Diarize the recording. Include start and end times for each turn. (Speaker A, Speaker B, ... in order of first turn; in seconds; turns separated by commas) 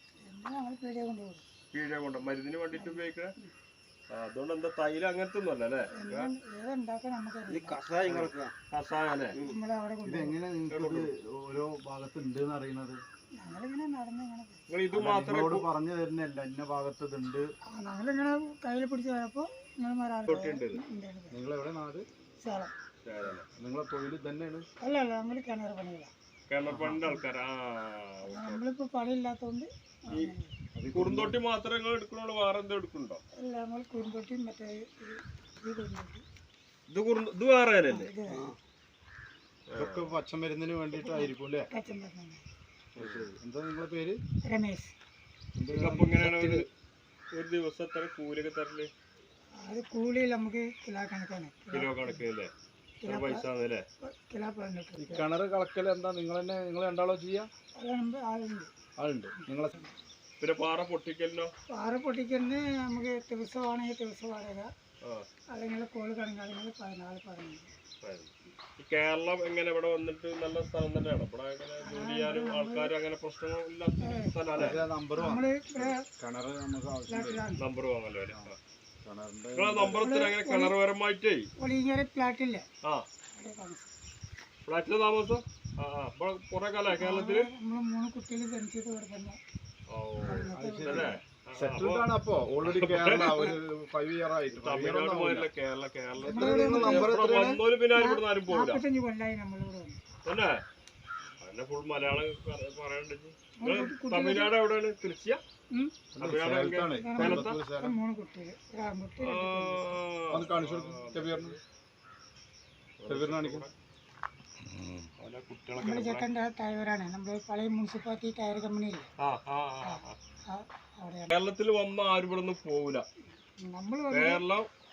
Speaker A: 0.2-1.4, Speaker B: 1.7-3.3, Speaker A: 2.7-3.5, Speaker B: 4.1-6.3, Speaker A: 5.9-7.8, Speaker C: 7.5-8.5, Speaker B: 8.0-9.4, Speaker A: 9.4-10.4, Speaker C: 10.0-13.0, Speaker B: 10.7-11.1, Speaker A: 13.4-14.6, Speaker B: 14.7-15.7, Speaker C: 14.9-17.5, Speaker A: 17.7-21.4, Speaker B: 20.2-20.8, Speaker C: 21.3-22.1, Speaker A: 22.4-22.7, Speaker B: 23.1-23.4, Speaker C: 23.4-24.6, Speaker A: 24.8-26.1, Speaker B: 26.5-28.6, Speaker C: 26.6-27.1, Speaker A: 28.3-30.5, Speaker C: 30.1-31.4, Speaker B: 30.9-33.2, Speaker A: 33.4-36.2, Speaker B: 36.9-38.1, Speaker A: 37.9-38.5, Speaker B: 39.7-40.2, Speaker C: 39.8-41.7, Speaker A: 40.9-42.4, Speaker B: 42.9-43.3, Speaker C: 43.0-44.2, Speaker A: 44.4-44.9, Speaker C: 45.5-46.6, Speaker B: 45.7-46.7, Speaker B: 47.3-48.9, Speaker A: 49.6-52.2, Speaker B: 51.7-52.5, Speaker A: 53.0-53.5, Speaker B: 53.0-53.9, Speaker A: 54.0-55.3, Speaker C: 55.0-57.5, Speaker A: 57.8-58.7, Speaker C: 59.0-59.8, Speaker B: 60.4-61.5, Speaker A: 61.7-64.7, Speaker A: 65.5-67.7, Speaker B: 68.0-74.8, Speaker A: 71.8-72.9, Speaker A: 74.0-74.3, Speaker C: 74.5-77.5, Speaker A: 75.1-76.0, Speaker A: 77.1-77.6, Speaker B: 77.6-78.6, Speaker C: 79.0-80.1, Speaker B: 79.5-81.5, Speaker A: 80.0-80.8, Speaker A: 81.6-82.6, Speaker A: 83.3-83.9, Speaker B: 84.7-87.5, Speaker A: 86.9-89.4, Speaker B: 89.9-92.1, Speaker A: 90.2-91.2, Speaker C: 90.5-95.5, Speaker B: 92.6-93.5, Speaker B: 94.5-98.8, Speaker A: 96.2-97.2, Speaker C: 96.2-97.6, Speaker A: 97.9-100.0, Speaker B: 100.2-100.6, Speaker B: 101.4-105.4, Speaker A: 103.6-104.5, Speaker A: 105.7-106.0, Speaker C: 106.2-108.0, Speaker B: 106.2-107.6, Speaker A: 107.0-110.0, Speaker B: 109.2-111.6, Speaker C: 110.3-111.6, Speaker B: 113.0-113.7, Speaker C: 113.1-113.7, Speaker B: 115.2-116.2, Speaker A: 115.8-119.0, Speaker B: 119.2-120.2, Speaker A: 119.8-121.4, Speaker B: 121.3-123.0, Speaker A: 123.6-124.4, Speaker B: 124.1-124.7